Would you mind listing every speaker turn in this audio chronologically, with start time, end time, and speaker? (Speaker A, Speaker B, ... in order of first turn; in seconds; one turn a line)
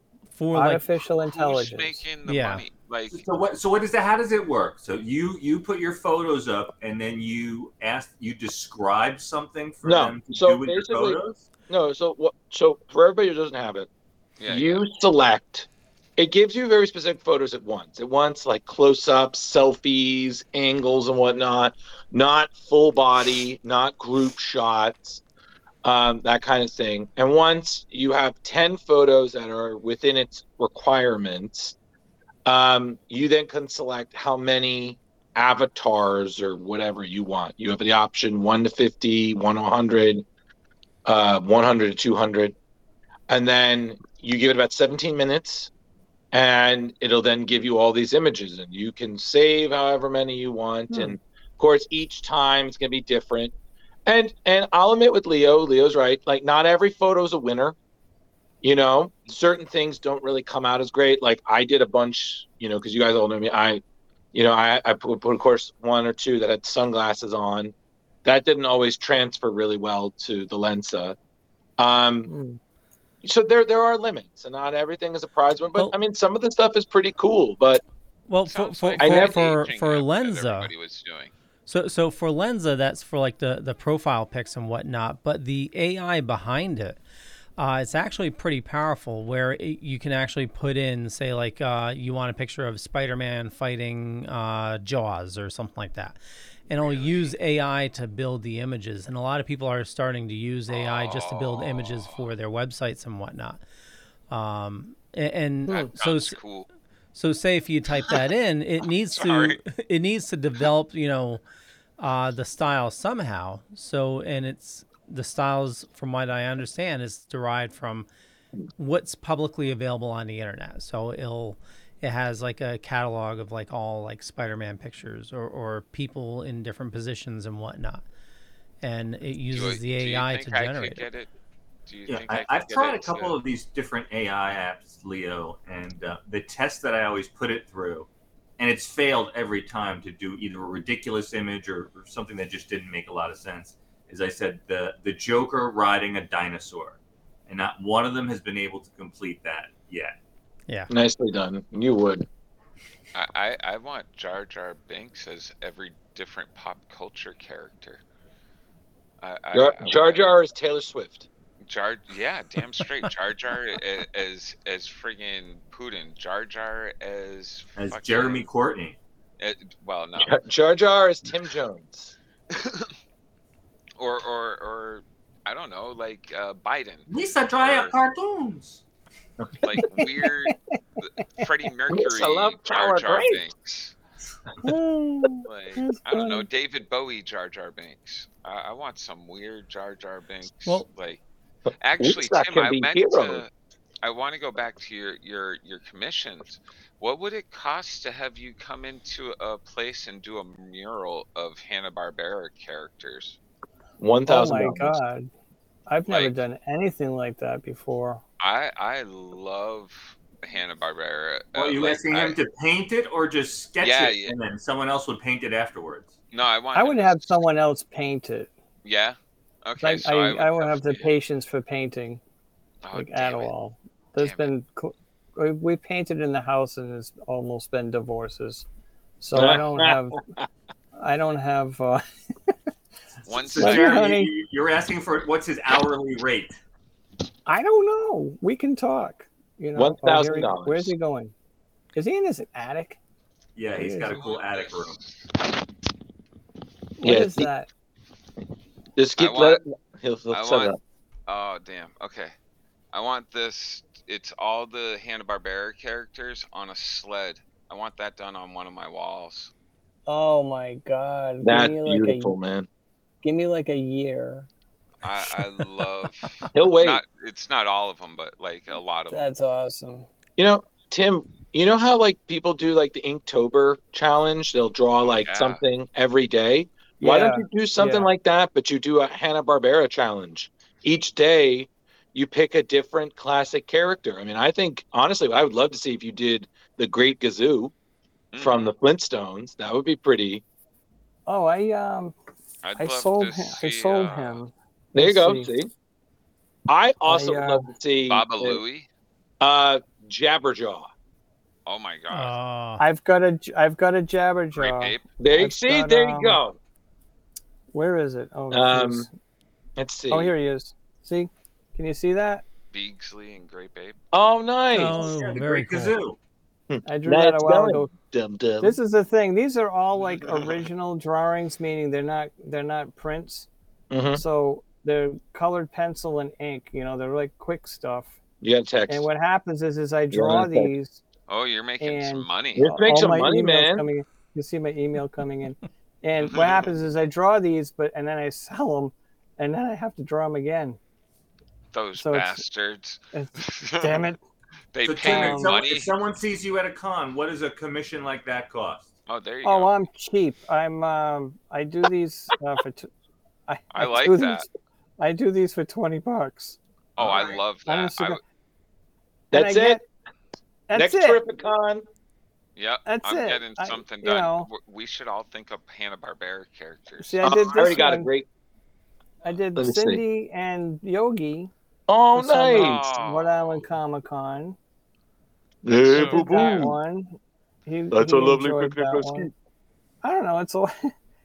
Speaker A: 0.3-0.8
Speaker B: 0.5-2.0
Speaker C: 1.1-3.2
Speaker A: 2.2-2.6
Speaker D: 3.1-11.4
Speaker E: 9.8-13.9
Speaker C: 14.4-14.8
Speaker E: 14.5-25.2
Speaker E: 25.8-31.7
Speaker E: 32.4-40.2
Speaker E: 41.0-42.5
Speaker E: 43.3-45.7
Speaker E: 46.3-53.5
Speaker E: 54.0-57.7
Speaker E: 58.6-63.8
Speaker E: 64.3-67.7
Speaker E: 68.2-71.2
Speaker E: 71.8-72.3
Speaker B: 72.3-72.6
Speaker E: 73.2-77.8
Speaker A: 78.3-80.7
Speaker C: 78.5-81.3
Speaker E: 79.0-79.4
Speaker A: 81.7-87.0
Speaker A: 87.6-103.6
Speaker C: 96.8-97.3
Speaker C: 100.7-102.3
Speaker A: 104.3-106.4
Speaker C: 105.7-106.7
Speaker A: 107.1-111.4
Speaker C: 109.1-109.6
Speaker A: 112.0-118.1
Speaker A: 118.8-128.0
Speaker A: 128.8-131.0
Speaker C: 129.5-131.3
Speaker C: 131.9-133.4
Speaker D: 132.1-138.1
Speaker D: 138.6-150.1
Speaker E: 150.9-152.2
Speaker C: 153.1-158.0
Speaker C: 159.2-160.3
Speaker E: 159.5-161.3
Speaker C: 161.6-168.5
Speaker D: 167.8-168.9
Speaker C: 169.4-170.4
Speaker E: 170.2-172.1
Speaker C: 172.5-172.9
Speaker C: 174.0-177.9
Speaker D: 177.1-178.8
Speaker C: 179.6-183.9
Speaker B: 180.5-180.8
Speaker E: 181.9-183.4
Speaker B: 184.6-186.4
Speaker C: 185.4-191.2
Speaker C: 191.8-193.5
Speaker E: 192.0-193.4
Speaker C: 194.0-203.4
Speaker E: 204.0-205.0
Speaker B: 204.3-205.3
Speaker B: 205.9-208.2
Speaker C: 206.1-206.4
Speaker C: 208.4-212.4
Speaker D: 211.5-216.1
Speaker C: 213.8-214.3
Speaker C: 216.3-217.4
Speaker B: 216.7-218.5
Speaker C: 218.8-221.1
Speaker B: 219.8-222.2
Speaker C: 222.8-223.5
Speaker B: 222.9-228.7
Speaker C: 224.2-224.5
Speaker B: 229.2-230.2
Speaker E: 229.3-230.4
Speaker B: 230.9-232.5
Speaker C: 233.2-234.0
Speaker D: 233.3-236.6
Speaker B: 233.6-234.3
Speaker B: 237.4-241.3
Speaker E: 239.7-240.9
Speaker B: 241.9-243.0
Speaker D: 243.6-245.0
Speaker B: 243.8-244.2
Speaker C: 244.1-245.2
Speaker B: 247.0-247.7
Speaker E: 247.0-247.5
Speaker E: 248.9-250.8
Speaker C: 249.2-249.6
Speaker C: 250.3-250.7
Speaker C: 251.3-252.3
Speaker C: 252.9-259.5
Speaker B: 260.1-262.3
Speaker E: 261.4-262.7
Speaker B: 263.2-264.5
Speaker C: 265.0-269.2
Speaker E: 266.5-267.0
Speaker B: 269.1-270.1
Speaker E: 270.4-287.7
Speaker C: 275.0-275.6
Speaker B: 277.0-278.1
Speaker C: 288.3-288.7
Speaker E: 288.4-290.4
Speaker B: 291.3-292.1
Speaker C: 292.6-294.4
Speaker B: 292.8-295.5
Speaker E: 294.9-295.7
Speaker E: 296.7-298.6
Speaker B: 297.1-297.7
Speaker C: 298.1-298.9
Speaker E: 299.4-300.9
Speaker C: 301.6-302.4
Speaker A: 302.1-302.8
Speaker B: 302.8-306.4
Speaker C: 304.5-305.1
Speaker E: 305.2-306.6
Speaker B: 307.7-309.1
Speaker E: 308.5-309.1
Speaker E: 309.8-310.3
Speaker B: 310.1-312.4
Speaker C: 312.7-314.0
Speaker E: 314.1-315.1
Speaker A: 314.7-315.9
Speaker D: 314.9-316.2
Speaker E: 316.7-318.8
Speaker B: 316.8-317.9
Speaker B: 318.6-323.5
Speaker E: 323.9-324.2
Speaker B: 324.1-328.1
Speaker E: 328.4-329.1
Speaker B: 328.9-331.0
Speaker E: 330.1-330.7
Speaker C: 331.3-332.7
Speaker B: 331.8-340.8
Speaker E: 332.6-333.9
Speaker C: 341.7-344.1
Speaker B: 342.0-342.4
Speaker B: 343.1-344.2
Speaker C: 344.7-345.9
Speaker D: 344.8-348.9
Speaker B: 345.0-345.6
Speaker C: 349.1-349.7
Speaker B: 349.4-352.9
Speaker B: 353.5-354.5
Speaker C: 353.7-354.4
Speaker B: 355.0-356.6
Speaker C: 357.0-358.2
Speaker D: 357.0-357.3
Speaker E: 357.0-357.4
Speaker B: 357.6-358.2
Speaker E: 359.3-359.8
Speaker B: 359.3-359.8
Speaker B: 360.7-361.2
Speaker E: 360.7-361.8
Speaker C: 362.6-367.6
Speaker B: 362.9-364.5
Speaker B: 367.0-368.1
Speaker E: 367.2-368.3
Speaker B: 369.2-371.5
Speaker E: 369.6-370.0
Speaker E: 371.9-372.8
Speaker B: 372.1-374.6
Speaker C: 372.5-373.6
Speaker E: 375.6-376.7
Speaker C: 375.9-376.7
Speaker B: 375.9-379.3
Speaker E: 377.9-379.3
Speaker B: 380.0-380.9